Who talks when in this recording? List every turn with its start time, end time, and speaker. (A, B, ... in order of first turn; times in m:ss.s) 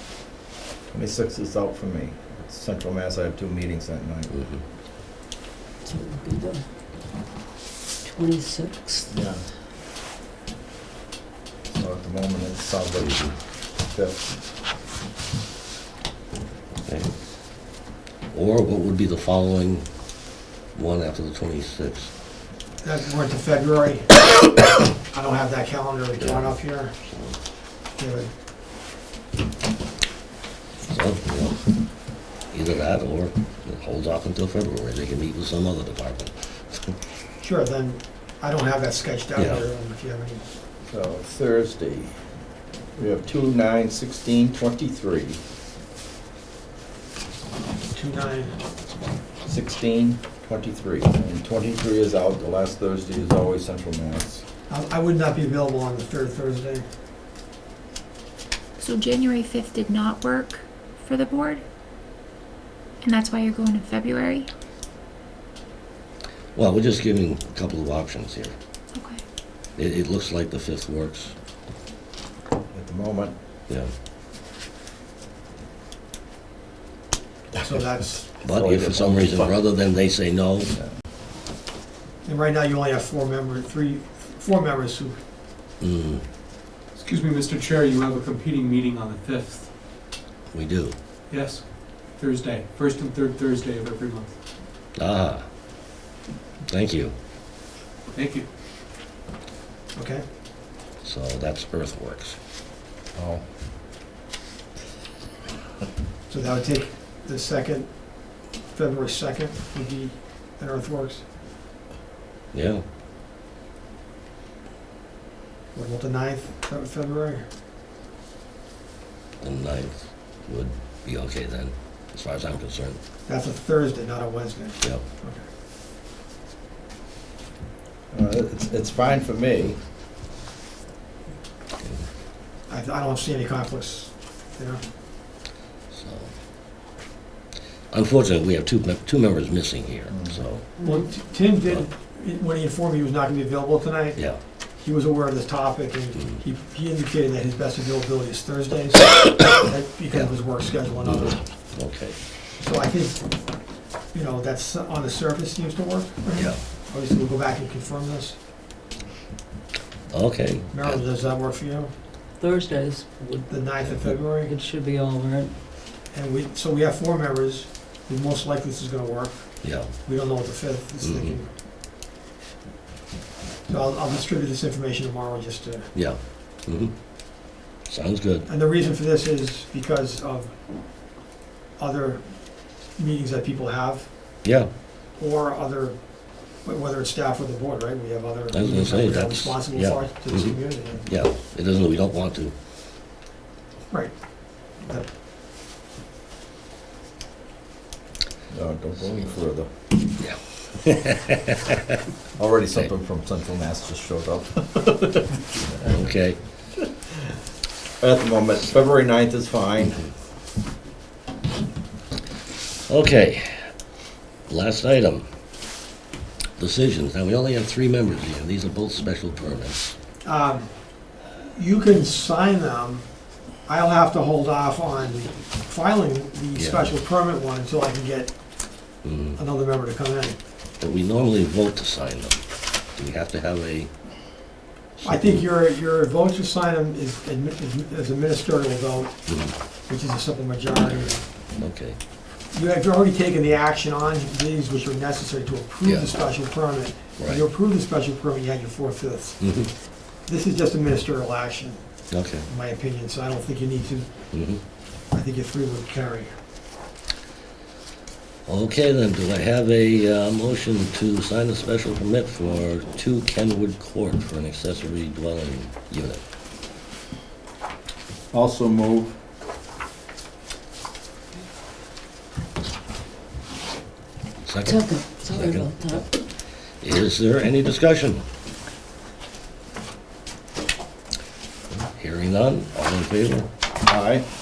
0:00.9-0:04.3 A
0:04.3-0:04.6 B
0:05.8-0:06.6 C
0:08.0-0:09.1 C
0:09.1-0:09.4 A
0:11.7-0:13.2 A
0:13.0-0:13.3 B
0:13.9-0:14.2 A
0:16.8-0:17.1 B
0:18.3-0:19.9 B
0:20.7-0:22.1 B
0:22.8-0:24.2 D
0:25.1-0:26.9 D
0:26.2-0:27.4 B
0:28.0-0:28.3 D
0:30.9-0:31.6 B
0:32.5-0:36.9 B
0:37.4-0:40.4 D
0:39.4-0:39.6 B
0:40.9-0:42.1 A
0:43.0-0:45.4 A
0:47.9-0:48.5 D
0:49.4-0:54.4 A
0:54.7-0:56.8 D
0:58.8-1:01.6 E
1:03.0-1:04.5 E
1:06.5-1:08.5 B
1:08.9-1:09.2 E
1:09.8-1:11.3 B
1:12.7-1:13.3 A
1:17.6-1:18.2 D
1:18.4-1:20.7 B
1:18.4-1:19.6 A
1:22.2-1:25.2 D
1:25.8-1:26.2 B
1:26.9-1:29.7 F
1:30.5-1:31.0 B
1:31.3-1:34.4 F
1:35.0-1:35.4 B
1:36.7-1:37.1 B
1:38.1-1:38.5 F
1:39.9-1:40.2 D
1:41.0-1:42.4 B
1:43.1-1:43.4 A
1:46.3-1:51.2 D
1:52.5-1:52.8 B
1:55.7-1:57.5 D
1:59.4-2:03.0 B
2:03.3-2:05.5 D
2:08.1-2:09.8 A
2:11.8-2:12.0 B
2:12.7-2:14.8 D
2:15.9-2:16.3 B
2:17.9-2:20.7 B
2:20.1-2:20.4 A
2:20.8-2:21.0 C
2:20.8-2:31.4 D
2:30.1-2:32.2 B
2:32.6-2:33.3 D
2:34.1-2:38.4 D
2:40.1-2:41.0 B
2:40.7-2:41.9 D
2:42.4-2:43.6 C
2:43.5-2:44.5 D
2:43.8-2:44.1 B
2:44.3-2:45.5 C
2:46.1-2:51.5 D
2:49.6-2:50.0 B
2:51.0-2:51.4 B
2:53.7-2:55.9 D
2:55.9-2:56.9 B
2:57.9-2:58.5 B
2:58.5-3:00.6 D
3:01.8-3:04.1 D
3:04.4-3:04.7 B
3:05.2-3:06.0 D
3:06.6-3:11.1 D
3:08.5-3:12.5 B
3:14.8-3:15.1 D
3:18.5-3:19.7 A
3:20.2-3:21.7 B
3:22.4-3:25.9 A
3:25.8-3:26.4 B
3:28.0-3:30.0 A
3:32.9-3:33.7 B
3:34.5-3:35.2 B
3:36.6-3:39.9 B
3:40.2-3:40.7 D
3:41.5-3:43.1 D
3:43.6-3:48.3 D
3:46.6-3:46.9 B
3:49.0-3:49.4 B
3:49.4-3:50.4 D
3:50.8-3:53.9 B
3:55.0-3:55.5 B
3:55.0-3:59.1 D
3:59.3-3:59.5 B
3:59.9-4:01.2 D
4:00.9-4:02.0 B
4:02.5-4:09.4 D
4:05.8-4:06.1 B
4:07.2-4:07.4 B
4:09.4-4:09.7 B
4:10.2-4:11.8 D
4:12.1-4:12.5 B
4:12.5-4:14.1 D
4:14.3-4:14.6 B
4:15.1-4:16.3 D
4:18.5-4:26.2 B
4:28.3-4:29.1 A
4:34.4-4:36.0 B
4:34.6-4:36.1 C
4:36.8-4:38.2 B
4:41.7-4:43.5 B
4:43.8-4:44.2 A